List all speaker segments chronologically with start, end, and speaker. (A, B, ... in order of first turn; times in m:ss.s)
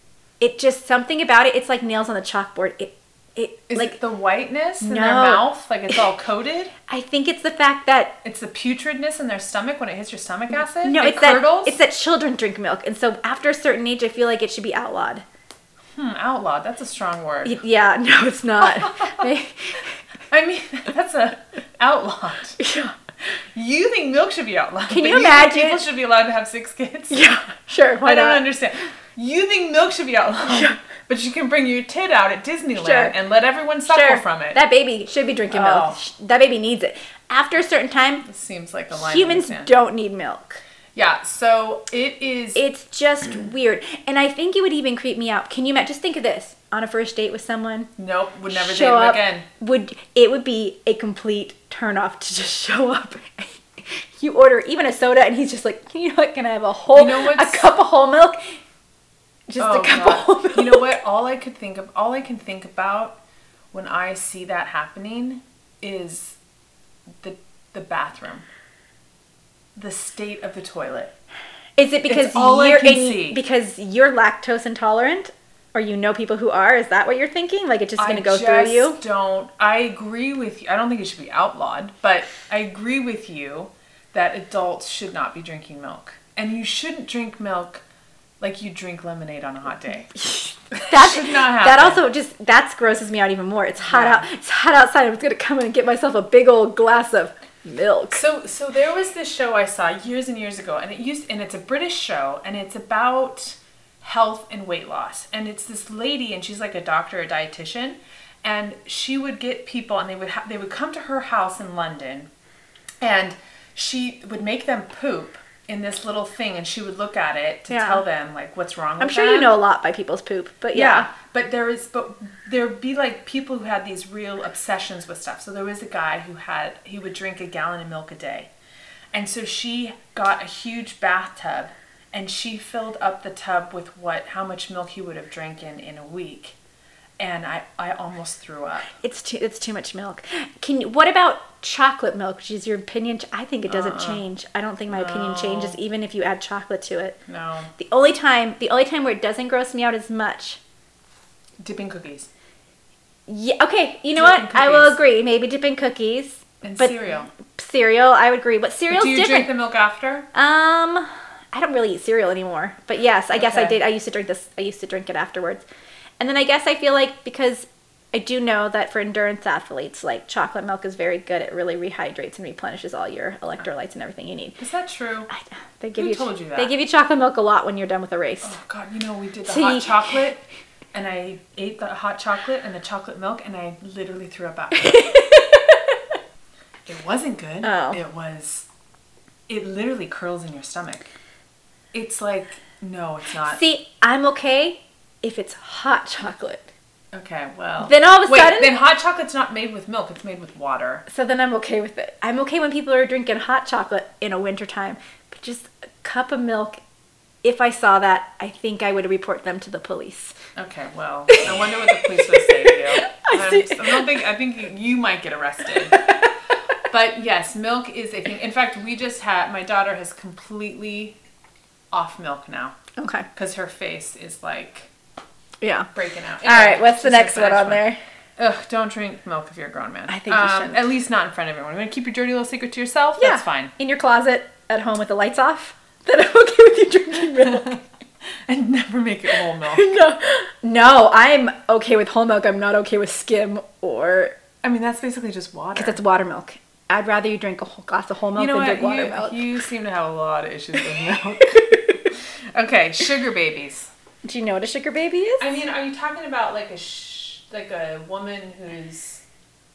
0:00.4-0:04.0 A
0:03.7-0:06.7 B
0:04.8-0:06.0 A
0:06.9-0:08.2 A
0:08.2-0:11.8 B
0:10.8-0:15.2 A
0:16.0-0:17.6 B
0:17.4-0:19.9 A
0:18.6-0:19.3 B
0:20.3-0:22.6 B
0:22.6-0:23.0 A
0:23.6-0:27.2 B
0:24.9-0:25.8 A
0:27.1-0:28.4 A
0:28.0-0:34.6 B
0:30.4-0:30.8 A
0:32.8-0:33.1 A
0:33.9-0:38.2 A
0:35.5-0:36.0 B
0:38.2-0:39.7 B
0:38.9-0:40.6 A
0:41.0-0:42.6 B
0:42.6-0:47.9 A
0:48.0-0:49.5 B
0:48.5-0:58.4 A
0:56.9-0:57.7 B
0:59.5-1:01.0 A
0:59.6-1:03.2 B
1:03.7-1:06.4 B
1:07.2-1:08.5 B
1:09.8-1:11.1 B
1:11.8-1:19.0 A
1:12.1-1:13.4 B
1:18.0-1:27.8 B
1:28.4-1:30.2 B
1:30.2-1:38.2 A
1:30.7-1:32.0 B
1:33.8-1:34.2 B
1:38.1-1:52.3 B
1:53.0-1:59.6 B
1:57.7-1:58.0 A
1:59.0-2:01.1 A
2:00.7-2:08.5 B
2:09.1-2:16.6 B
2:17.2-2:18.9 B
2:18.9-2:27.2 A
2:23.7-2:24.2 B
2:24.9-2:25.8 B
2:27.3-2:27.7 B
2:27.8-2:30.6 A
2:31.6-2:32.3 B
2:33.3-2:39.5 A
2:34.2-2:35.0 B
2:36.6-2:37.3 B
2:38.9-2:40.3 B
2:40.3-2:45.6 A
2:43.3-2:43.8 B
2:46.2-2:54.6 A
2:54.6-2:55.3 B
2:55.3-2:58.6 A
2:56.0-2:56.7 B
2:58.4-3:05.1 B
2:59.5-3:00.1 A
3:04.8-3:06.0 A
3:06.9-3:08.7 B
3:07.6-3:08.0 A
3:09.5-3:11.1 B
3:11.9-3:13.6 B
3:13.4-3:16.7 A
3:17.1-3:21.1 B
3:17.8-3:18.8 A
3:21.1-3:26.8 A
3:27.4-3:30.4 A
3:30.6-3:36.2 B
3:31.3-3:34.2 A
3:36.9-3:41.2 B
3:41.9-3:42.8 B
3:43.0-3:43.3 A
3:43.4-3:44.9 B
3:45.6-3:45.9 A
3:45.9-3:53.7 B
3:46.4-3:48.0 A
3:50.1-3:50.8 A
3:53.2-3:57.8 A
3:57.4-3:57.8 B
3:58.5-3:59.9 B
3:59.7-4:04.4 A
4:04.6-4:06.0 B
4:05.8-4:09.4 A
4:08.4-4:13.9 B
4:11.4-4:11.9 A
4:14.2-4:15.5 A
4:15.4-4:19.2 B